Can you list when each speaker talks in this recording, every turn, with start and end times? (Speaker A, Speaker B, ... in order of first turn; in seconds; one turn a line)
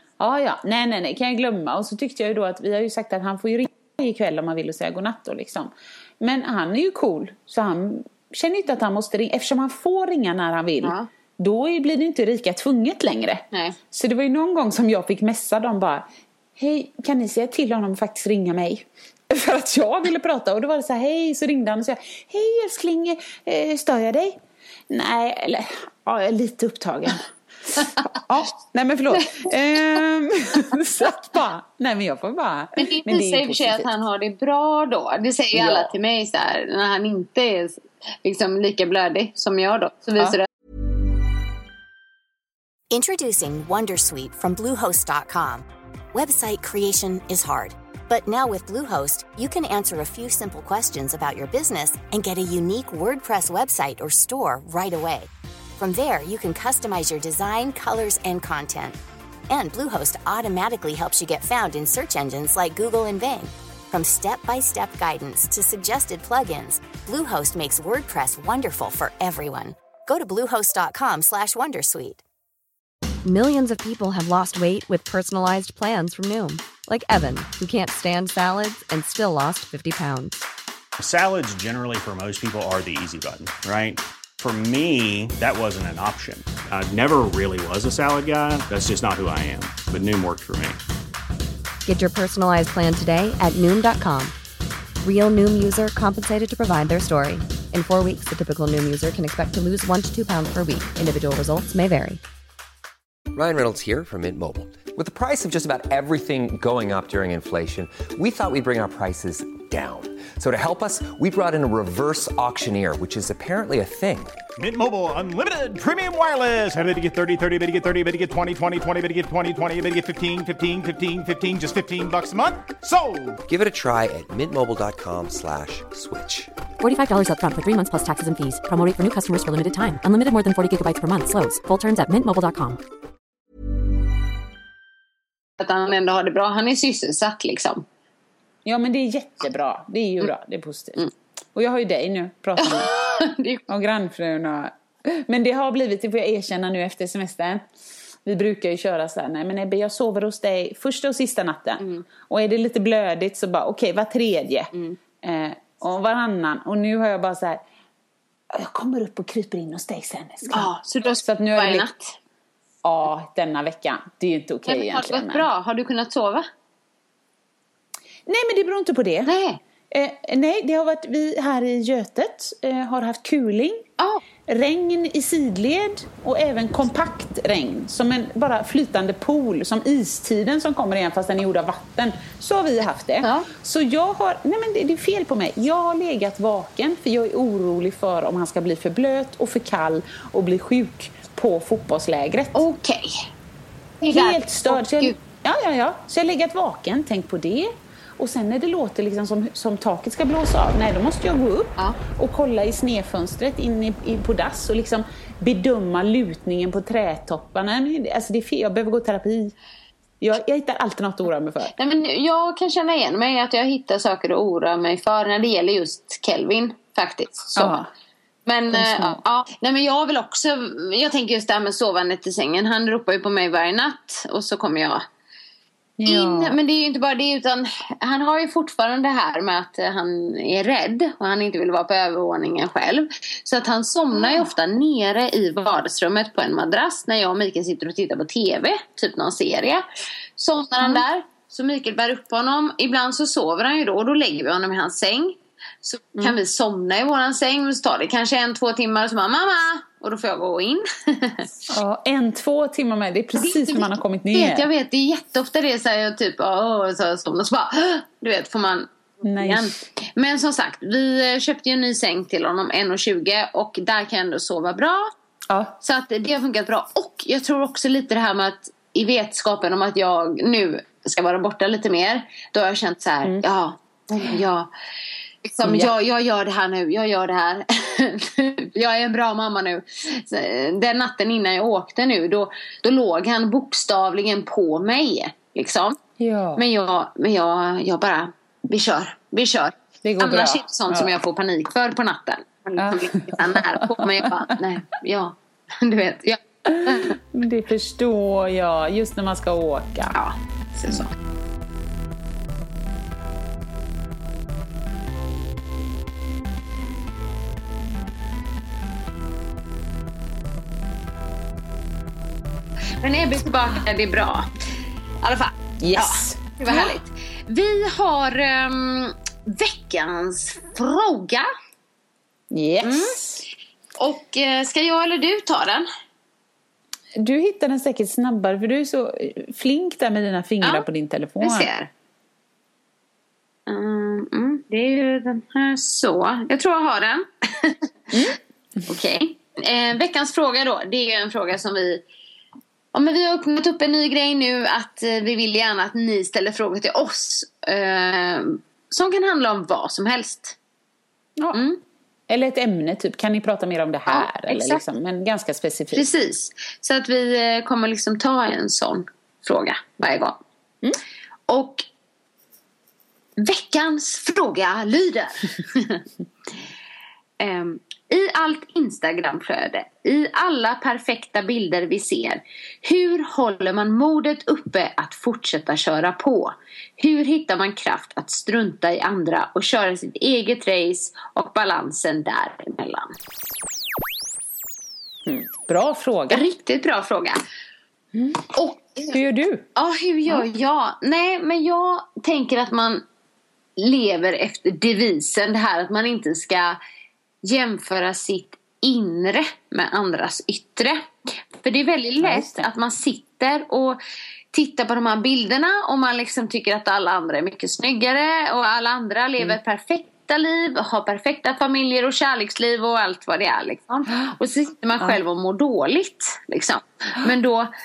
Speaker A: 0.2-24.4
Speaker B: 10.8-11.1
Speaker A: 24.9-27.3
Speaker A: 27.8-33.9
Speaker B: 32.8-40.5
Speaker A: 35.5-35.9
Speaker C: 42.9-59.0
Speaker C: 59.5-72.2
Speaker D: 73.2-80.5
Speaker E: 81.0-90.8
Speaker D: 91.9-94.3
Speaker D: 95.0-102.2
Speaker F: 103.3-114.3
Speaker G: 114.6-123.4
Speaker F: 123.5-126.5
Speaker H: 126.8-132.8
Speaker B: 135.6-137.8
Speaker A: 138.7-141.0
Speaker A: 141.6-142.9
Speaker B: 142.6-143.6
Speaker A: 143.7-147.7
Speaker A: 148.2-154.7
Speaker B: 151.8-152.1
Speaker A: 155.2-157.6
Speaker A: 158.5-160.7
Speaker B: 160.5-162.2
Speaker A: 161.2-161.9
Speaker A: 162.8-165.5
Speaker B: 164.7-166.5
Speaker A: 168.3-169.3
Speaker B: 169.3-169.6
Speaker A: 169.9-173.9
Speaker A: 174.5-192.6
Speaker B: 183.2-183.5
Speaker B: 192.6-193.3
Speaker B: 194.0-195.2
Speaker A: 194.1-209.5
Speaker A: 210.2-211.7
Speaker B: 211.8-217.8
Speaker A: 217.6-217.9
Speaker B: 218.5-225.0
Speaker A: 218.7-219.2
Speaker A: 226.0-226.6
Speaker B: 226.1-239.8
Speaker A: 234.2-234.4
Speaker B: 240.4-251.5
Speaker A: 251.7-254.7
Speaker B: 253.4-265.1
Speaker A: 259.2-259.7
Speaker B: 265.8-274.7
Speaker B: 275.5-286.0
Speaker A: 275.6-275.9
Speaker A: 286.2-286.6
Speaker B: 286.6-297.2
Speaker A: 290.0-291.1
Speaker A: 292.8-294.3
Speaker A: 296.7-300.2
Speaker B: 300.1-301.1
Speaker B: 313.0-314.5
Speaker B: 315.2-321.5
Speaker A: 315.8-317.0
Speaker A: 322.5-323.4
Speaker B: 322.8-323.2
Speaker B: 324.0-325.9
Speaker A: 327.2-331.7
Speaker B: 331.4-331.9
Speaker B: 333.7-337.9
Speaker A: 338.1-338.9
Speaker B: 338.9-342.0
Speaker B: 342.9-350.6
Speaker B: 351.5-351.8
Speaker A: 352.3-356.1
Speaker B: 354.1-354.8
Speaker B: 355.9-360.4
Speaker B: 361.5-361.9
Speaker B: 363.4-366.0
Speaker B: 367.4-383.1
Speaker A: 385.3-386.4
Speaker B: 386.3-387.4
Speaker A: 388.1-388.6
Speaker B: 388.6-389.2
Speaker A: 389.1-389.6
Speaker B: 389.8-393.0
Speaker B: 393.8-396.8
Speaker B: 397.4-401.0
Speaker B: 401.6-404.0
Speaker A: 402.2-402.7
Speaker B: 404.5-417.7